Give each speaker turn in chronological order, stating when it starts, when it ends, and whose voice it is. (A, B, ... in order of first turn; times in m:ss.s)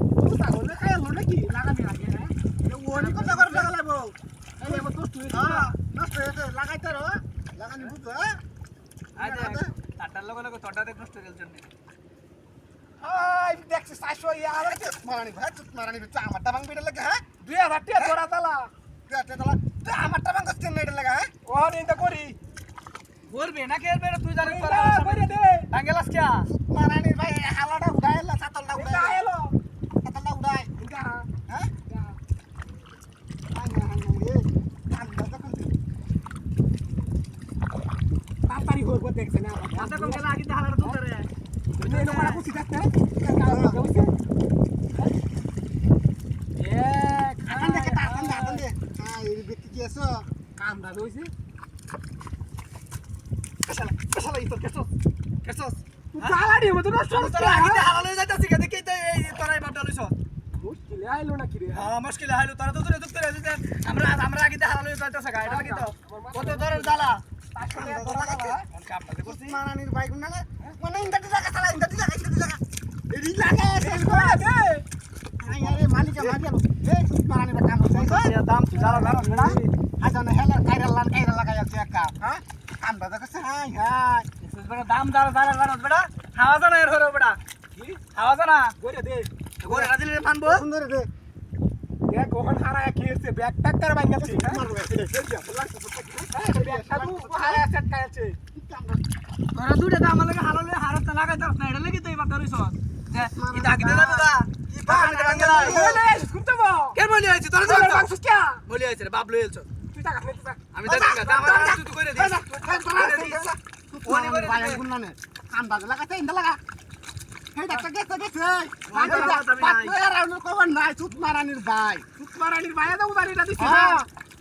0:00.2-0:02.3 A
0:02.6-0:08.4 B
0:02.9-0:03.7 A
0:04.6-0:05.5 A
0:05.3-0:05.8 C
0:09.2-0:11.7 C
0:09.2-0:09.7 B
0:13.0-0:14.9 A
0:14.6-0:17.2 B
0:17.4-0:18.7 A
0:18.0-0:18.2 B
0:19.1-0:21.3 B
0:21.6-0:22.4 A
0:23.3-0:26.5 C
0:24.4-0:25.7 A
0:26.6-0:29.2 B
0:28.8-0:29.5 A
0:30.0-0:30.7 B
0:30.9-0:31.2 A
0:33.5-0:35.8 B
0:38.5-0:41.0 A
0:39.7-0:41.3 C
0:41.8-0:44.1 A
0:41.8-0:42.4 C
0:43.4-0:43.8 B
0:46.6-0:48.6 A
0:47.5-0:50.3 B
0:50.6-0:51.3 A
0:53.7-0:54.9 C
0:55.4-0:56.4 C
0:56.2-0:57.9 A
0:57.1-1:00.2 C
1:00.6-1:01.9 A
1:01.7-1:07.2 C
1:05.5-1:07.2 A
1:07.7-1:08.5 A
1:07.7-1:08.6 B
1:07.8-1:09.6 C
1:09.2-1:14.5 B
1:13.8-1:14.8 A
1:15.4-1:24.3 B
1:15.5-1:15.9 A
1:17.8-1:19.6 C
1:19.1-1:19.7 A
1:24.4-1:27.4 C
1:27.8-1:28.0 A
1:28.0-1:28.8 C
1:28.8-1:29.3 A
1:29.6-1:30.6 C
1:29.6-1:31.1 B
1:32.1-1:34.6 A
1:34.2-1:37.7 B
1:36.3-1:38.4 A
1:38.6-1:39.0 B
1:39.5-1:45.8 C
1:43.1-1:46.0 B
1:44.9-1:47.0 A
1:46.9-1:48.1 C
1:47.7-1:48.6 A
1:48.6-1:49.7 C
1:50.0-1:50.6 A
1:50.7-1:53.4 C
1:50.8-1:56.6 B
1:52.6-1:52.9 A
1:54.0-1:54.8 C
1:57.6-2:02.1 B
1:58.9-2:00.0 C
2:02.2-2:04.0 A
2:03.6-2:04.1 B